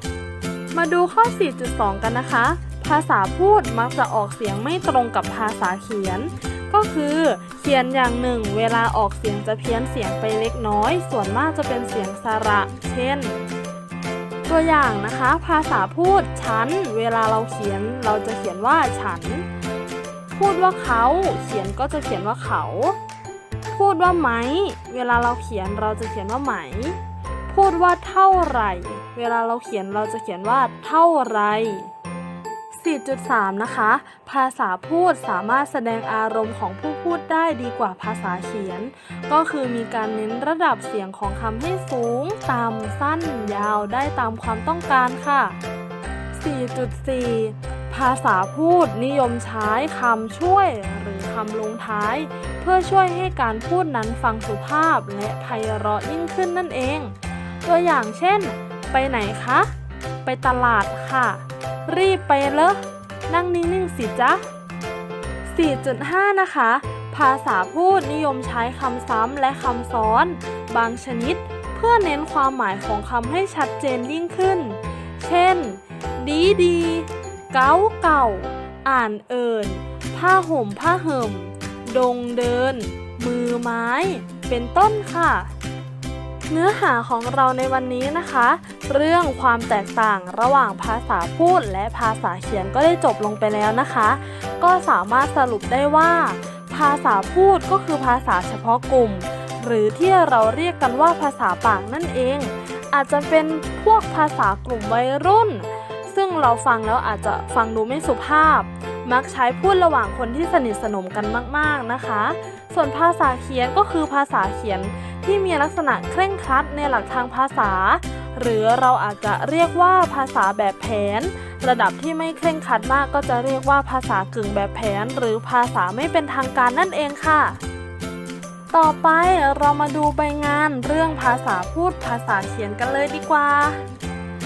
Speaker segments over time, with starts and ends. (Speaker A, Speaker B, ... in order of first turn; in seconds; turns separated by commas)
Speaker A: 0.7-13.4, Speaker A: 14.5-19.5, Speaker A: 20.3-23.0, Speaker A: 23.7-31.9, Speaker A: 32.7-45.6, Speaker A: 46.3-59.7, Speaker A: 60.2-64.5, Speaker A: 65.5-85.5, Speaker A: 86.5-127.6, Speaker A: 128.7-133.9